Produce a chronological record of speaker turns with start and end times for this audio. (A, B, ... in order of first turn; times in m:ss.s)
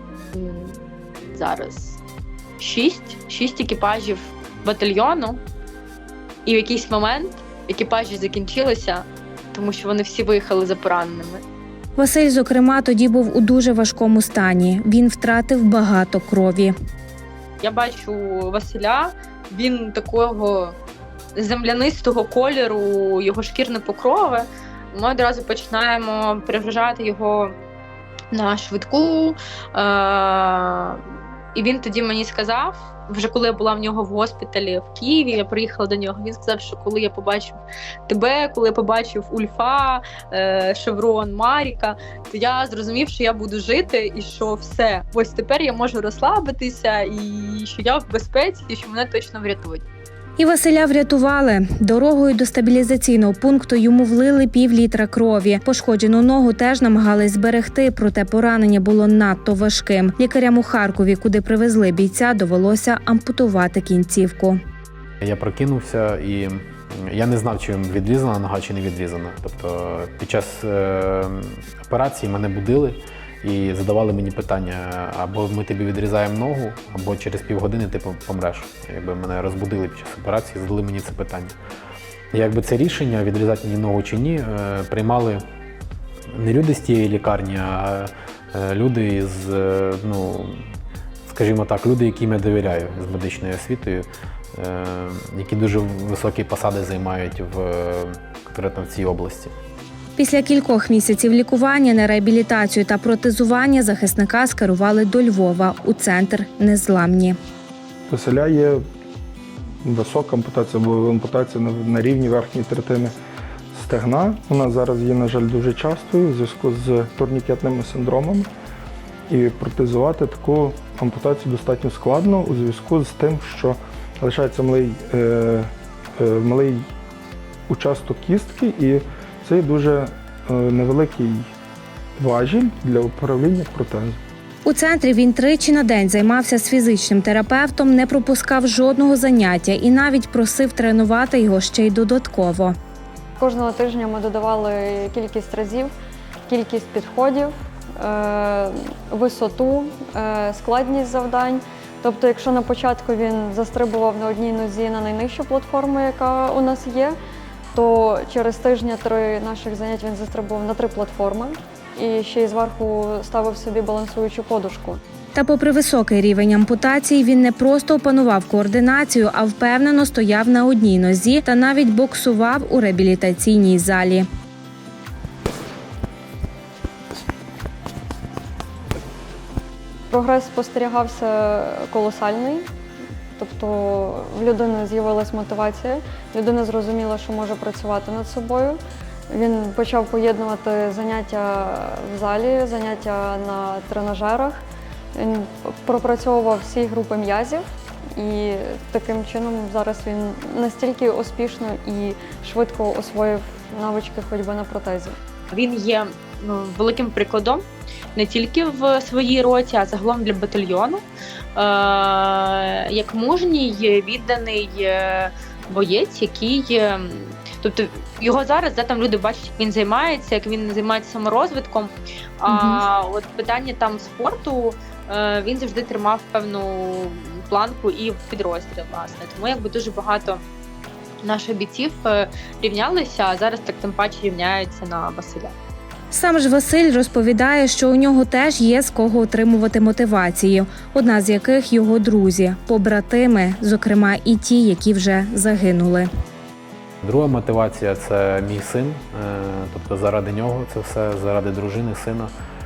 0:00.3-0:02.0 A
0:02.6-0:05.4 A
0:06.4-0:11.4 A
0:12.0-0:16.7 B
0:17.6-0:20.8 A
0:21.4-0:27.5 A
0:28.3-0:31.0 A
0:31.5-0:49.8 A
0:50.4-1:04.6 B
1:05.2-1:21.5 C
1:22.3-1:25.4 C
1:26.3-1:30.6 C
1:31.3-1:39.5 C
1:40.2-1:47.4 B
1:48.1-1:48.8 D
1:49.8-1:53.1 D
1:53.7-1:58.5 D
1:59.3-2:06.8 D
2:07.7-2:11.5 D
2:12.2-2:14.2 D
2:14.6-2:22.8 B
2:23.4-2:25.9 E
2:26.5-2:37.2 E
2:37.7-2:45.0 E
2:45.4-2:54.3 B
3:00.1-3:02.6 E
3:03.4-3:14.6 E
3:15.2-3:17.6 E
3:18.2-3:25.2 E
3:25.5-3:27.6 A
3:28.2-3:31.0 A
3:31.6-3:50.4 A
3:42.5-3:42.8 B
3:51.2-3:55.5 A
3:56.1-4:06.1 B
4:07.0-4:12.3 C